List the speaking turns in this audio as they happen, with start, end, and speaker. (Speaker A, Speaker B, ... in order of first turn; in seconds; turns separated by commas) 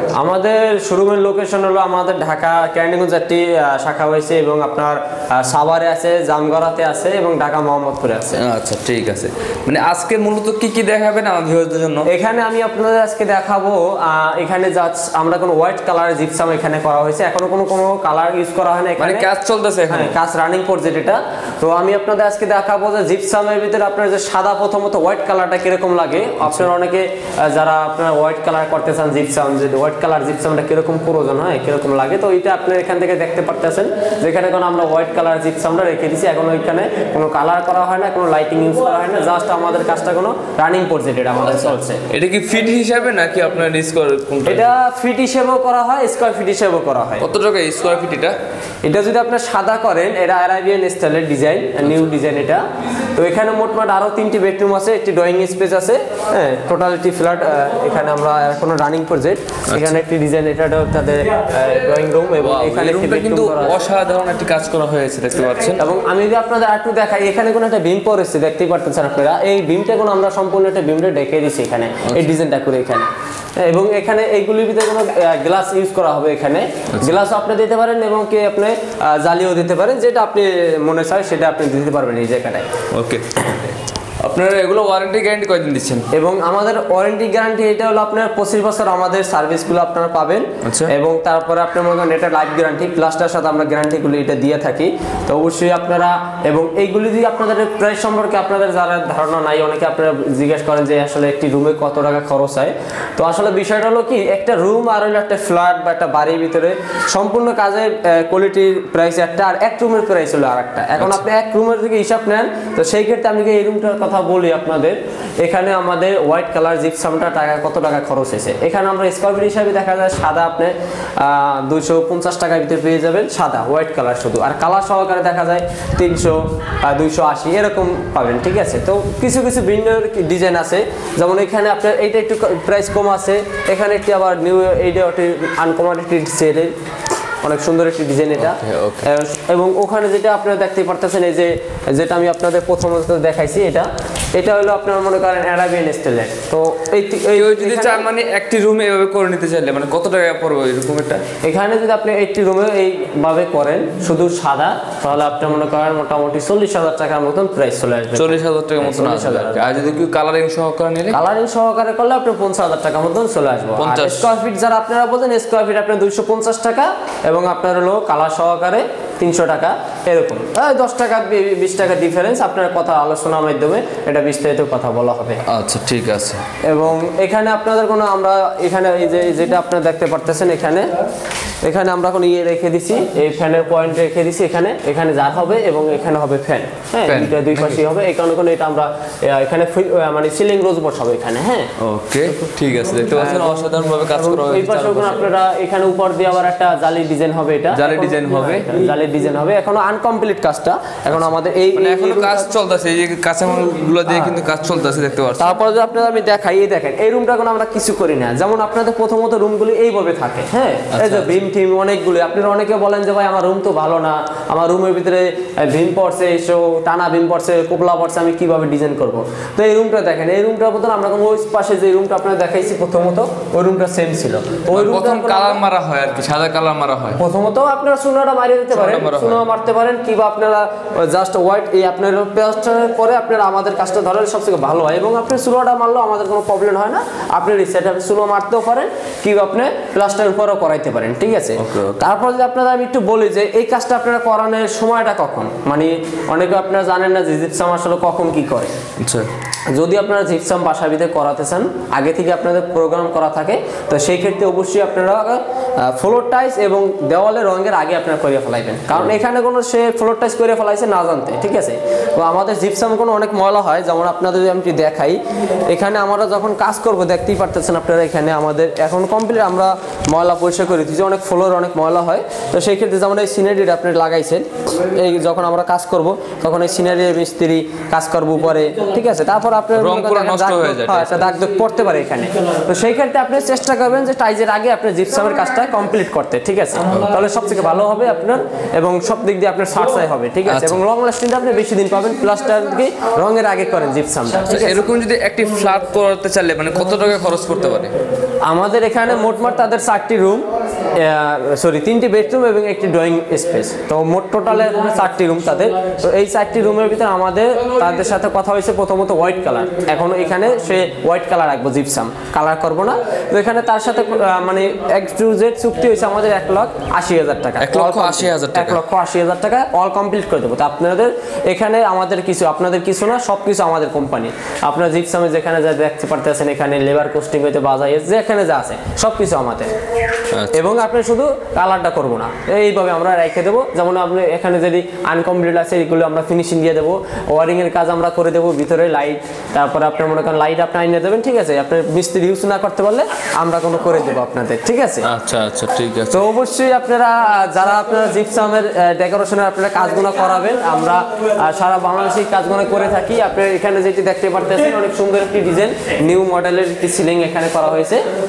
Speaker A: 0.2-8.4, Speaker B: 8.4-12.1, Speaker A: 12.1-19.3, Speaker B: 19.0-20.1, Speaker A: 19.9-42.1, Speaker B: 42.1-44.7, Speaker A: 44.5-47.3, Speaker B: 47.2-48.4, Speaker A: 48.8-52.6, Speaker A: 53.1-63.9, Speaker B: 59.7-59.9, Speaker B: 62.4-65.8, Speaker A: 65.8-82.7, Speaker B: 82.9-86.1, Speaker A: 86.1-136.7, Speaker B: 90.7-90.9, Speaker A: 137.4-148.1, Speaker B: 138.6-139.0, Speaker B: 147.4-151.2, Speaker A: 151.4-159.8, Speaker B: 158.2-161.2, Speaker A: 161.1-175.4, Speaker B: 163.8-164.2, Speaker B: 175.5-176.4, Speaker A: 176.6-180.9, Speaker A: 181.6-191.7, Speaker B: 187.1-187.8, Speaker B: 191.8-195.2, Speaker A: 193.1-202.5, Speaker B: 197.8-198.7, Speaker B: 201.8-205.5, Speaker A: 204.1-204.4, Speaker A: 205.4-225.6, Speaker B: 210.9-211.3, Speaker B: 224.8-227.2, Speaker A: 227.2-248.7, Speaker B: 228.7-229.4, Speaker B: 241.6-242.0, Speaker B: 249.0-249.3, Speaker A: 249.7-294.9, Speaker B: 279.8-281.2, Speaker B: 286.9-287.2, Speaker B: 290.5-290.8, Speaker B: 294.5-297.9, Speaker A: 298.4-329.7, Speaker B: 317.6-318.8, Speaker B: 330.3-330.6, Speaker A: 330.5-345.1, Speaker B: 345.1-346.2, Speaker A: 346.1-358.0